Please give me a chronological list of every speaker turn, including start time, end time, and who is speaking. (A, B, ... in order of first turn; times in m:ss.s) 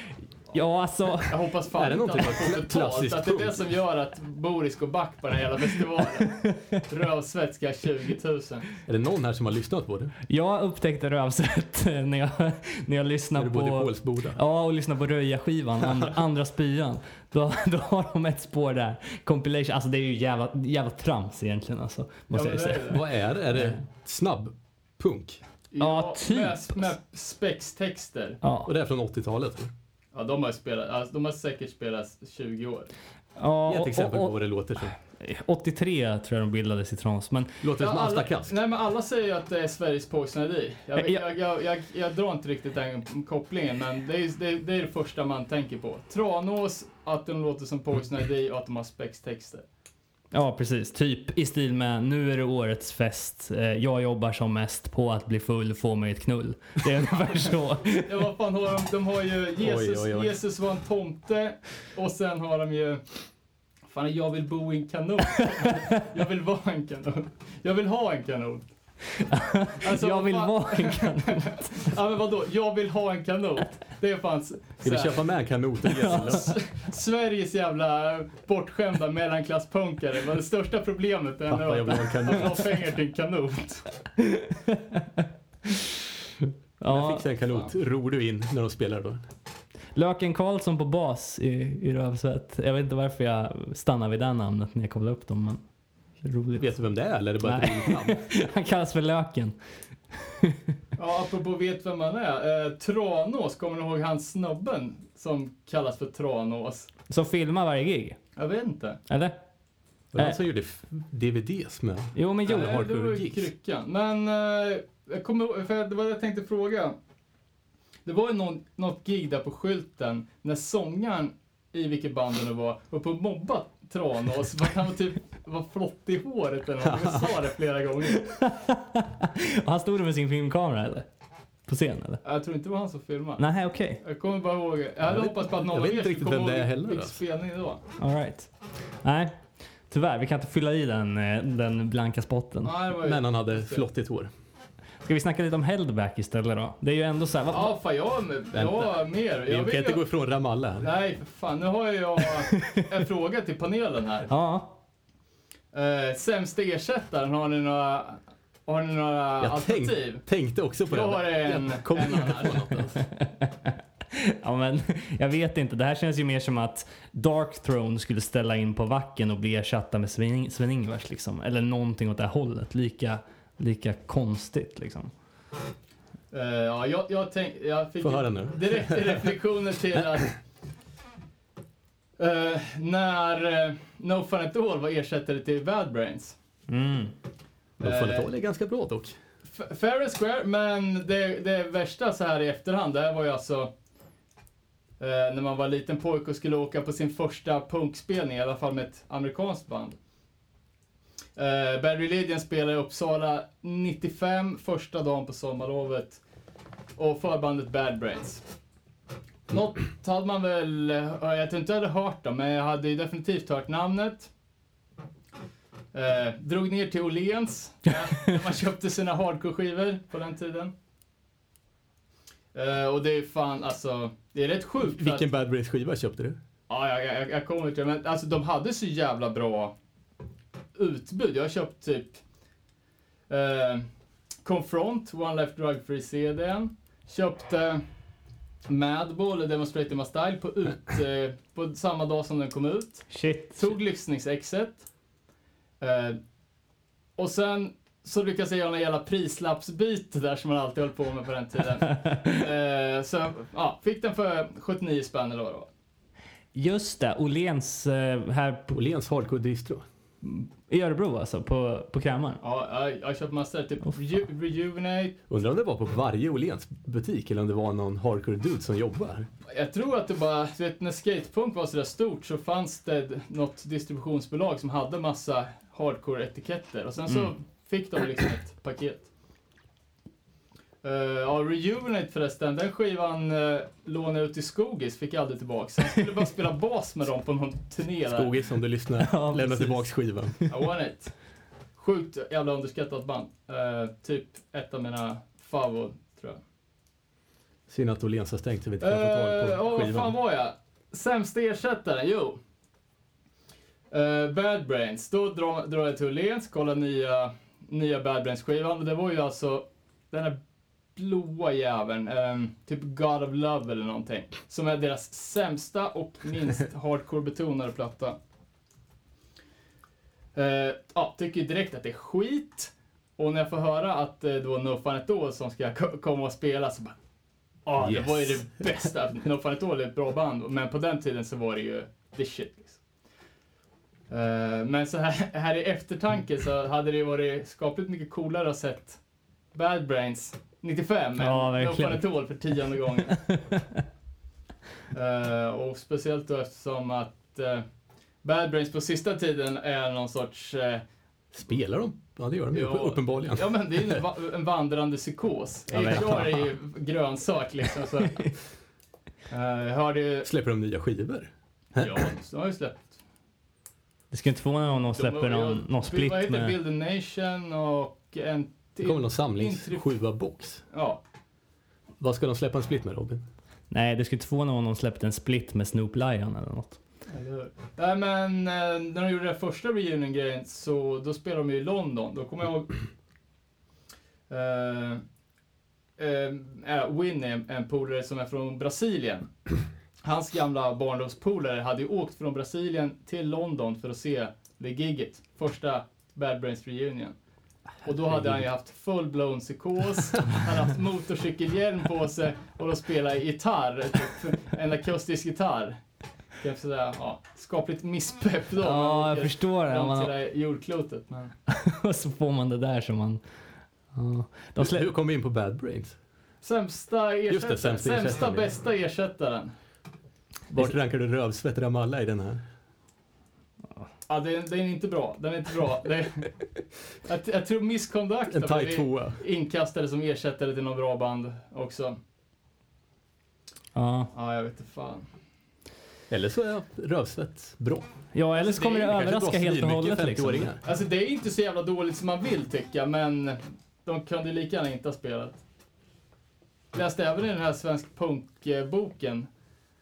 0:00.5-0:01.4 A
0:01.2-0:08.7 B
0:01.8-0:03.7 C
0:06.4-0:06.8 A
0:08.9-0:10.1 C
0:10.3-0:23.0 A
0:13.4-0:14.4 C
0:22.3-0:23.0 B
0:22.9-0:25.4 C
0:23.5-0:23.8 A
0:25.7-0:28.4 B
0:25.8-0:26.9 A
0:28.4-0:28.7 A
0:28.7-0:29.7 C
0:30.1-0:32.9 B
0:33.4-0:37.6 A
0:33.7-0:35.0 C
0:37.6-0:38.6 C
0:37.8-0:49.6 B
0:50.3-0:58.1 A
0:58.0-1:03.0 B
0:59.6-1:00.3 C
1:03.9-1:08.6 B
1:09.2-1:11.9 A
1:09.8-1:15.2 B
1:14.8-1:16.6 C
1:16.0-1:16.5 A
1:16.2-1:23.9 B
1:21.5-1:22.7 C
1:24.2-1:25.7 A
1:26.8-1:27.2 A
1:26.9-1:29.2 C
1:30.0-1:35.6 A
1:36.2-1:36.8 A
1:36.6-1:38.2 C
1:37.4-1:39.6 A
1:40.2-1:40.6 A
1:41.0-1:46.9 B
1:47.1-1:48.2 A
1:48.4-1:49.0 B
1:49.1-1:49.4 A
1:50.1-1:53.5 C
1:52.2-1:52.8 A
1:52.5-1:57.0 B
1:58.0-2:08.3 B
2:06.8-2:07.3 C
2:08.1-2:11.1 A
2:11.7-2:12.2 A
2:12.2-2:13.4 B
2:13.4-2:14.0 A
2:14.0-2:17.8 B
2:15.0-2:17.2 C
2:18.0-2:22.7 A
2:22.6-2:23.9 B
2:23.0-2:24.3 C
2:25.0-2:27.7 A
2:27.5-2:30.0 B
2:28.5-2:30.9 C
2:30.8-2:34.3 B
2:34.3-2:34.8 A
2:35.7-2:40.2 B
2:39.4-2:43.0 C
2:40.9-2:42.7 B
2:43.1-2:55.1 A
2:56.3-3:00.4 B
2:58.0-2:59.3 C
3:02.2-3:06.4 B
3:06.7-3:07.1 A
3:07.8-3:09.2 C
3:07.8-3:08.3 B
3:09.5-3:13.7 B
3:15.0-3:20.0 B
3:21.4-3:26.2 B
3:27.0-3:28.4 B
3:29.5-3:34.3 B
3:35.9-3:40.7 B
3:42.5-3:45.3 B
3:44.9-3:46.4 C
3:46.7-3:49.7 B
3:50.8-3:52.2 B
3:53.3-3:53.9 B
3:54.4-3:57.8 B
3:58.7-4:04.8 B
4:03.1-4:03.8 A
4:05.8-4:06.2 B
4:07.2-4:15.7 B
4:11.9-4:12.4 A
4:16.5-4:18.8 A
4:18.7-4:19.8 C
4:20.2-4:22.4 A
4:22.4-4:25.2 B
4:25.3-4:29.3 C
4:29.5-4:39.1 B
4:40.8-4:48.3 B
4:48.1-4:50.4 C
4:49.0-4:49.9 A
4:50.5-4:51.1 B
4:51.8-4:56.4 B
4:57.7-5:00.1 C
4:58.8-5:02.4 B
5:03.9-5:10.4 B
5:11.0-5:18.2 B
5:20.4-5:27.0 B
5:27.7-5:32.8 B
5:27.8-5:28.4 C
5:34.1-5:39.0 B
5:39.5-5:43.2 B
5:41.2-5:42.1 A
5:43.1-5:43.8 A
5:44.9-5:47.6 B
5:48.2-5:50.8 B
5:51.3-5:54.0 C
5:52.5-5:58.3 B
5:55.7-5:56.4 A
5:59.3-6:00.3 B
6:00.2-6:02.1 C
6:01.8-6:03.0 B
6:04.1-6:06.6 A
6:04.8-6:09.9 B
6:08.8-6:10.6 C
6:10.7-6:11.0 B
6:12.0-6:13.2 C
6:13.7-6:16.8 A
6:17.1-6:22.8 B
6:24.3-6:25.0 B
6:26.0-6:29.3 B
6:30.0-6:37.2 B
6:37.8-6:45.8 B
6:38.0-6:38.4 C
6:46.4-6:51.3 B
6:48.6-6:50.1 A
6:51.5-6:53.2 A
6:53.9-6:54.9 A
6:54.6-6:56.0 C
6:56.4-6:59.5 B
6:57.3-6:58.5 C
7:00.5-7:02.4 C
7:04.1-7:06.3 B
7:07.0-7:12.0 B
7:08.3-7:09.2 C
7:13.8-7:14.1 A
7:14.1-7:15.0 B
7:16.1-7:17.9 C
7:18.1-7:20.5 A
7:18.4-7:18.9 B
7:18.8-7:20.6 C
7:20.6-7:25.4 B
7:26.7-7:29.3 B